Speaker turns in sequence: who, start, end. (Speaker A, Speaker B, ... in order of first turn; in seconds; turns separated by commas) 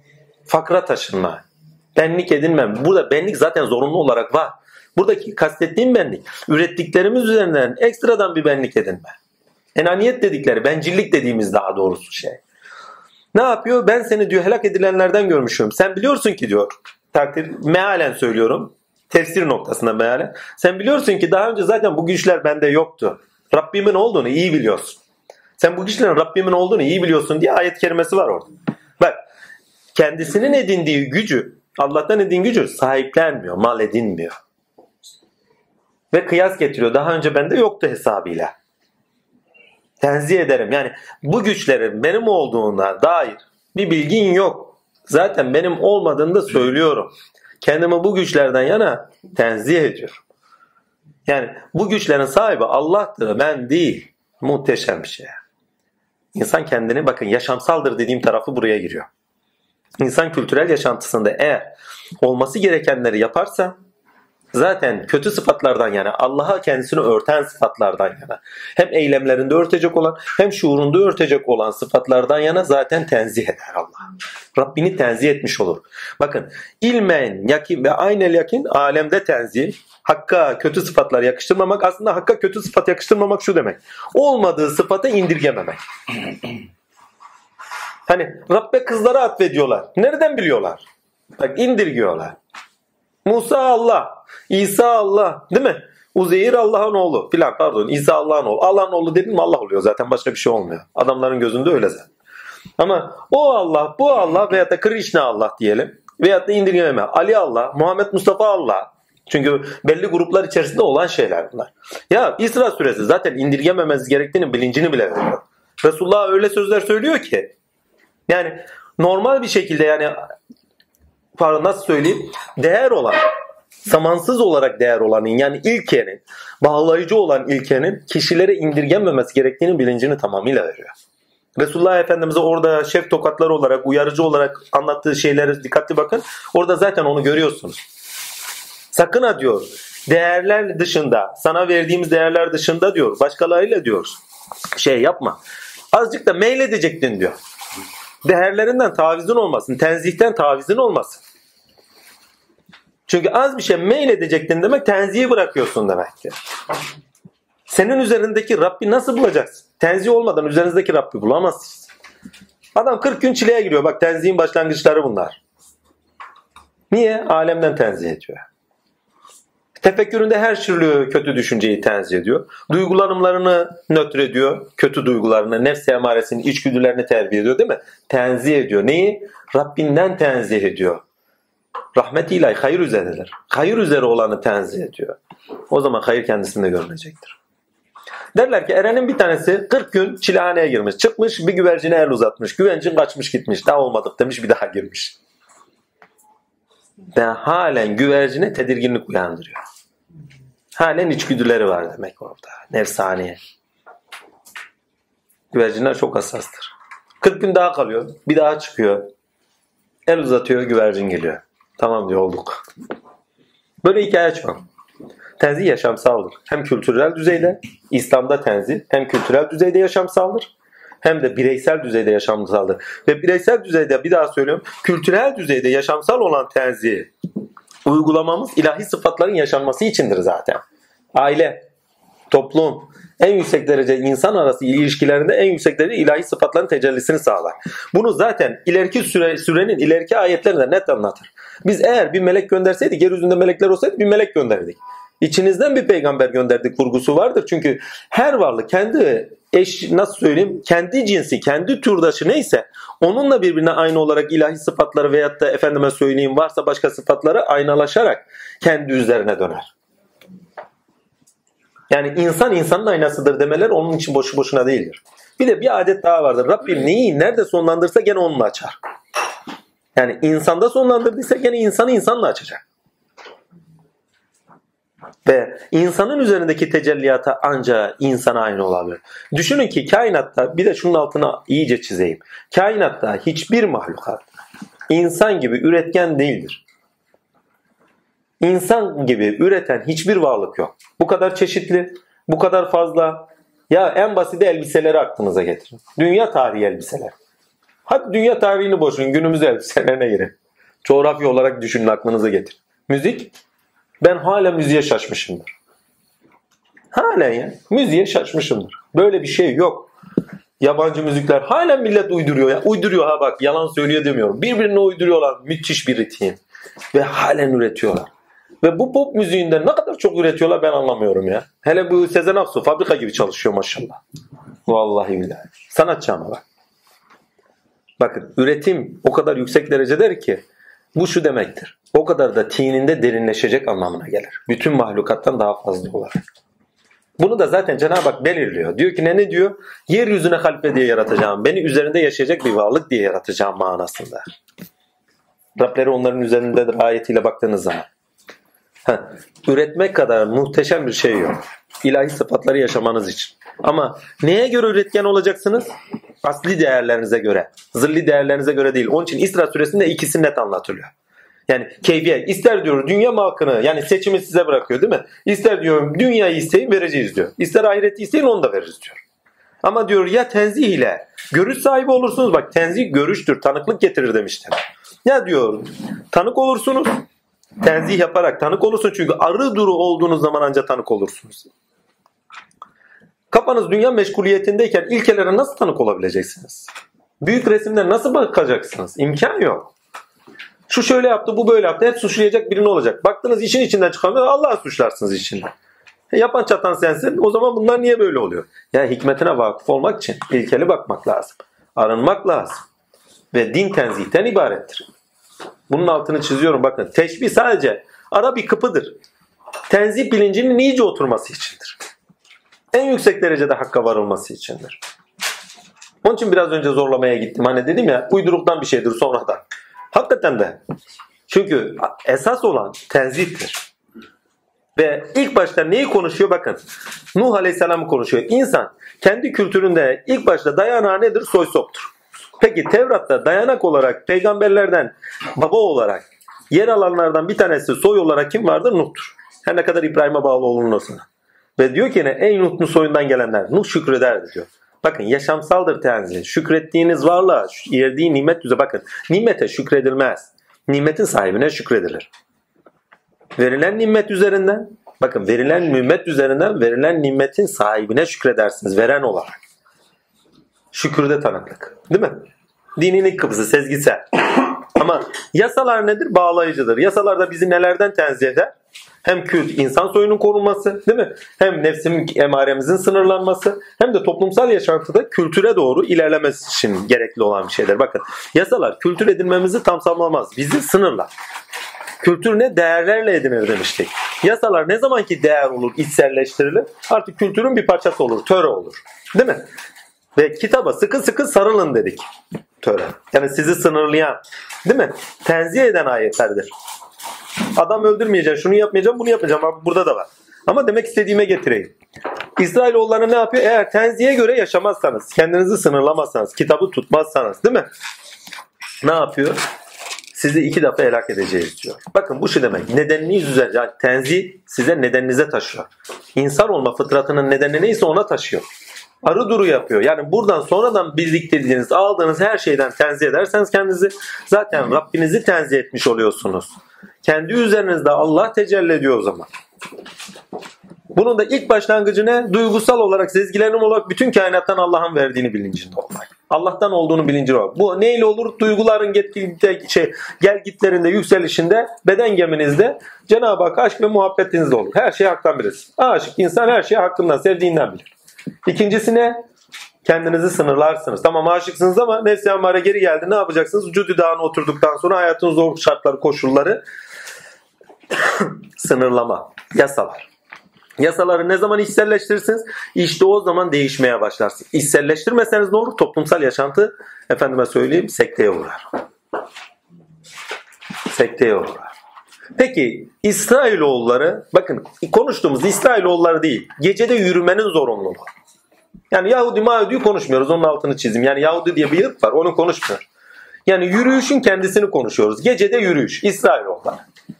Speaker A: 0.5-1.4, Speaker A: 1.9-9.2, Speaker A: 9.8-12.4, Speaker A: 13.3-25.0, Speaker A: 25.6-29.2, Speaker A: 29.9-34.4, Speaker A: 36.1-38.5, Speaker A: 40.0-50.2, Speaker A: 51.3-55.4, Speaker A: 56.4-59.1, Speaker A: 60.0-63.8, Speaker A: 64.5-74.0, Speaker A: 74.6-85.8, Speaker A: 88.1-90.8, Speaker A: 91.4-92.4, Speaker A: 93.2-102.1, Speaker A: 102.8-117.5, Speaker A: 118.3-120.3, Speaker A: 121.4-123.3, Speaker A: 123.9-130.9, Speaker A: 131.6-137.8, Speaker A: 138.9-144.2, Speaker A: 144.8-145.4, Speaker A: 145.9-147.4, Speaker A: 148.2-151.2, Speaker A: 153.1-156.4, Speaker A: 157.7-161.9, Speaker A: 162.8-165.4, Speaker A: 166.9-168.4, Speaker A: 169.8-181.0, Speaker A: 182.0-185.2, Speaker A: 185.7-187.4, Speaker A: 188.3-195.2, Speaker A: 197.2-199.6, Speaker A: 200.8-203.4, Speaker A: 205.5-209.1, Speaker A: 210.1-212.7, Speaker A: 213.8-214.6, Speaker A: 215.4-220.5, Speaker A: 221.0-227.1, Speaker A: 227.8-230.6, Speaker A: 231.2-231.7, Speaker A: 232.3-259.7, Speaker A: 261.9-268.8, Speaker A: 270.0-272.6, Speaker A: 275.2-284.3, Speaker A: 284.9-286.6, Speaker A: 288.4-297.1, Speaker A: 297.9-303.3, Speaker A: 304.0-305.5, Speaker A: 306.9-309.9, Speaker A: 310.6-316.4, Speaker A: 316.9-318.1, Speaker A: 318.6-324.0, Speaker A: 324.7-326.4, Speaker A: 328.0-330.4, Speaker A: 330.9-336.2, Speaker A: 337.2-344.3, Speaker A: 345.6-347.9, Speaker A: 348.9-355.7, Speaker A: 356.2-360.9, Speaker A: 361.5-369.0, Speaker A: 369.6-377.0, Speaker A: 377.6-381.5, Speaker A: 383.3-386.7, Speaker A: 387.2-389.7, Speaker A: 390.7-395.5, Speaker A: 396.1-402.6, Speaker A: 403.3-404.9, Speaker A: 405.7-409.0, Speaker A: 409.7-411.8, Speaker A: 412.7-414.8, Speaker A: 416.0-420.6, Speaker A: 421.3-423.7, Speaker A: 424.8-426.6, Speaker A: 427.1-452.1, Speaker A: 453.4-459.4, Speaker A: 460.7-462.2, Speaker A: 462.8-468.5, Speaker A: 469.1-481.1, Speaker A: 482.0-489.4, Speaker A: 490.2-492.1, Speaker A: 492.6-496.5, Speaker A: 497.5-501.7, Speaker A: 502.4-507.7, Speaker A: 508.8-509.4, Speaker A: 510.1-518.5, Speaker A: 519.0-529.3, Speaker A: 530.9-547.9, Speaker A: 548.5-549.2, Speaker A: 549.9-556.6, Speaker A: 558.0-560.1, Speaker A: 560.8-568.7, Speaker A: 570.9-571.7, Speaker A: 572.4-578.1, Speaker A: 578.9-582.9, Speaker A: 583.5-586.8